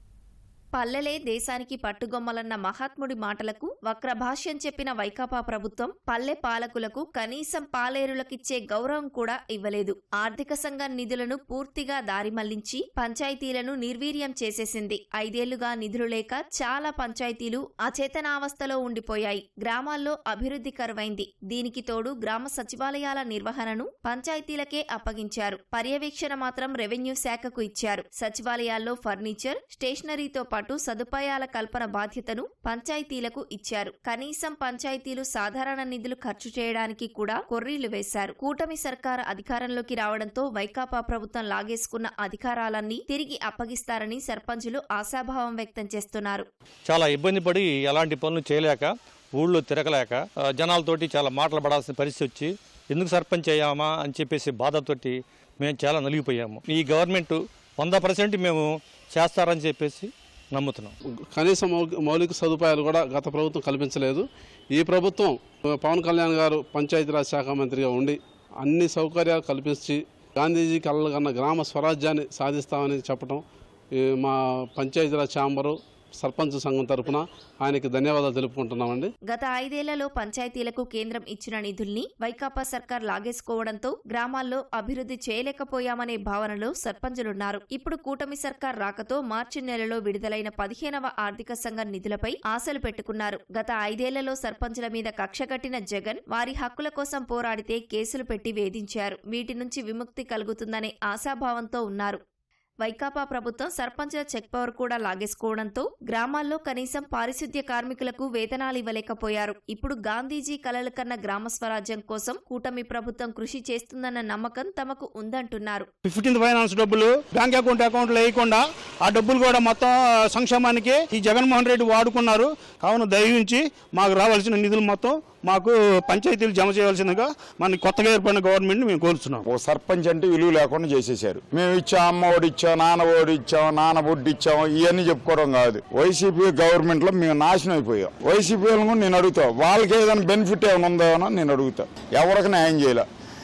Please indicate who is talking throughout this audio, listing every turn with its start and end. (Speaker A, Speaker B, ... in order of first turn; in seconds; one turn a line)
Speaker A: 0.8-46.5
Speaker B: 46.9-60.9
Speaker C: 61.3-73.4
Speaker C: 74.0-79.1
Speaker A: 79.3-102.2
Speaker A: 102.8-115.9
Speaker D: 116.0-129.4
Speaker E: 129.5-143.1